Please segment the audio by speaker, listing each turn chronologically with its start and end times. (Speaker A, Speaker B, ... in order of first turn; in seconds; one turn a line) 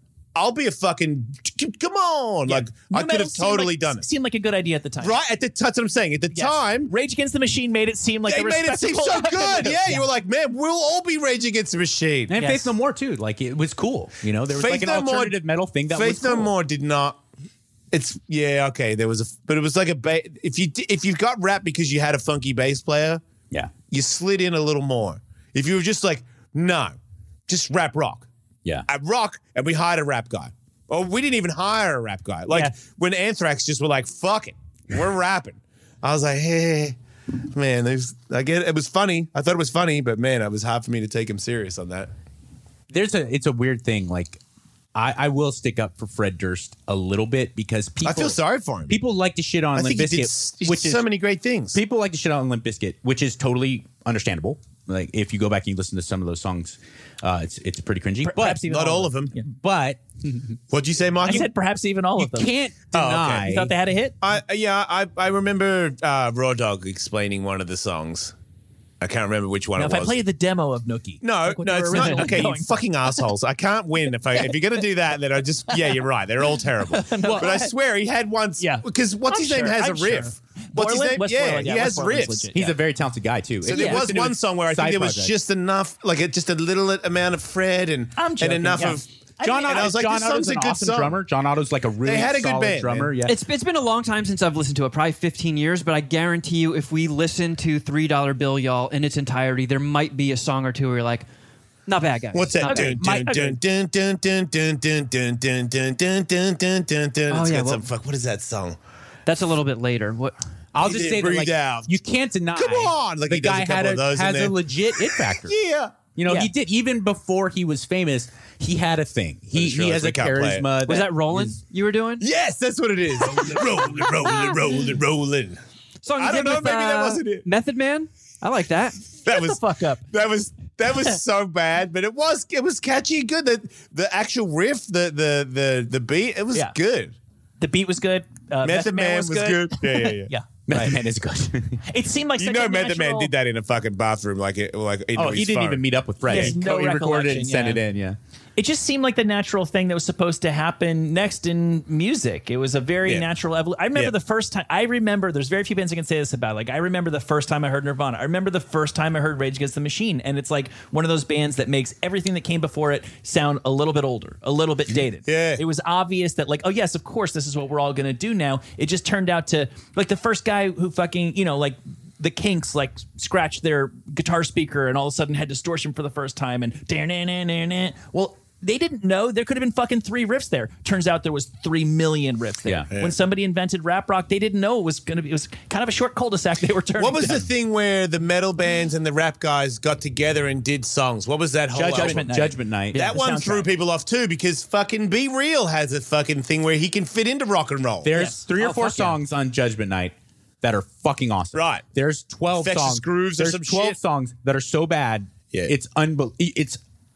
Speaker A: 0.3-4.0
Speaker B: 2.5-5.1
Speaker A: 5.0-6.9
Speaker B: 6.3-10.1
Speaker A: 8.3-12.3
Speaker C: 12.3-16.5
Speaker B: 12.3-12.7
Speaker A: 14.5-15.3
Speaker A: 15.9-17.2
Speaker A: 17.9-23.2
Speaker A: 23.9-26.9
Speaker A: 27.5-28.3
Speaker A: 28.9-36.9
Speaker A: 37.5-42.1
Speaker C: 42.9-44.4
Speaker C: 44.9-51.0
Speaker A: 48.0-49.0
Speaker A: 49.8-51.8
Speaker C: 51.7-58.6
Speaker B: 58.2-59.4
Speaker A: 58.6-59.4
Speaker C: 59.5-60.4
Speaker A: 60.7-61.5
Speaker B: 61.2-62.5
Speaker C: 62.2-63.7
Speaker A: 62.9-63.5
Speaker B: 63.4-64.2
Speaker A: 64.2-68.3
Speaker A: 69.0-70.2
Speaker B: 69.8-72.8
Speaker A: 71.2-82.5
Speaker B: 76.9-77.7
Speaker C: 77.2-77.6
Speaker B: 78.6-82.7
Speaker C: 82.5-85.3
Speaker B: 83.7-84.0
Speaker A: 83.7-91.2
Speaker B: 88.2-89.9
Speaker C: 89.4-93.4
Speaker A: 92.0-93.1
Speaker D: 93.2-101.2
Speaker D: 101.9-102.9
Speaker A: 102.3-108.8
Speaker B: 102.6-103.6
Speaker C: 103.0-103.5
Speaker D: 107.3-107.8
Speaker D: 109.2-110.4
Speaker C: 110.7-115.5
Speaker A: 110.8-111.9
Speaker A: 112.5-116.0
Speaker C: 116.1-121.6
Speaker A: 119.5-120.7
Speaker D: 120.9-122.2
Speaker A: 122.2-125.6
Speaker D: 126.0-129.0
Speaker A: 126.2-127.5
Speaker B: 129.2-130.0
Speaker A: 129.2-137.1
Speaker B: 137.6-140.5
Speaker A: 138.6-140.8
Speaker C: 140.7-141.8
Speaker B: 141.9-143.3
Speaker A: 142.4-146.6
Speaker C: 145.1-148.2
Speaker B: 146.3-147.8
Speaker B: 148.6-187.5
Speaker A: 165.2-165.6
Speaker A: 187.0-192.3
Speaker C: 191.7-193.2
Speaker B: 191.8-193.7
Speaker A: 192.9-198.1
Speaker C: 198.0-206.8
Speaker D: 198.6-199.1
Speaker A: 201.5-201.8
Speaker A: 202.5-203.9